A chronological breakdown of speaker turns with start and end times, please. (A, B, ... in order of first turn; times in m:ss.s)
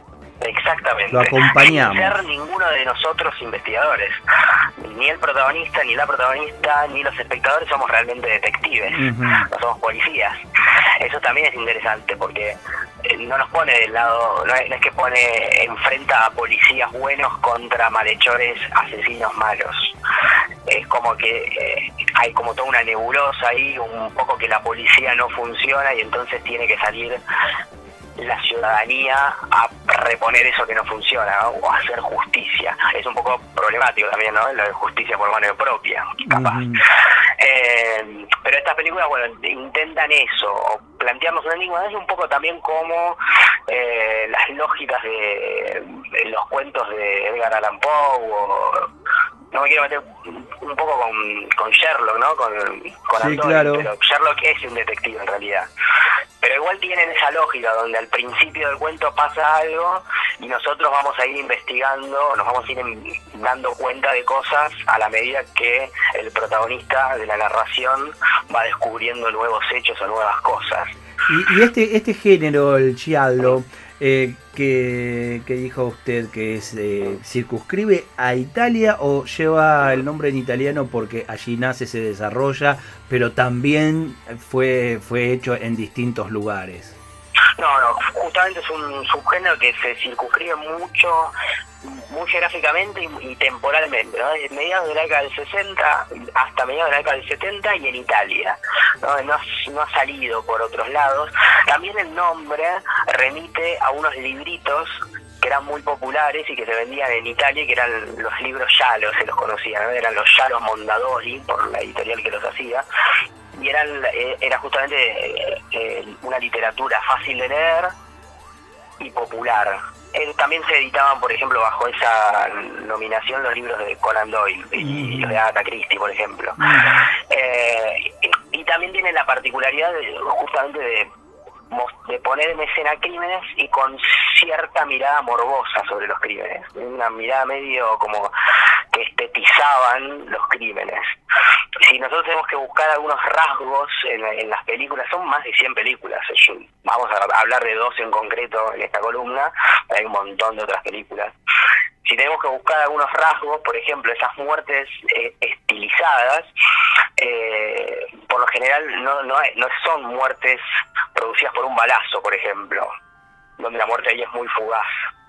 0:00.4-0:04.2 A
0:01.1-0:02.2 B
0:04.8-0:10.4 A
0:08.9-0:09.5 B
0:11.0-0:20.0 A
0:20.7-0:27.2 A
0:28.2-0:36.8 A
0:36.3-0:36.8 B
0:37.4-0:48.9 A
0:49.5-0:55.7 A
0:53.2-0:53.9 B
0:56.4-1:11.0 A
1:11.3-1:27.0 B
1:27.6-1:52.8 A
1:53.6-1:57.9 A
1:59.0-2:06.6 A
2:04.8-2:05.4 B
2:06.6-2:07.1 B
2:07.2-2:11.1 A
2:11.7-2:18.3 A
2:18.9-2:21.1 A
2:21.8-2:31.3 A
2:32.0-2:36.5 A
2:37.2-2:40.6 A
2:41.1-2:42.9 A
2:43.6-2:45.0 A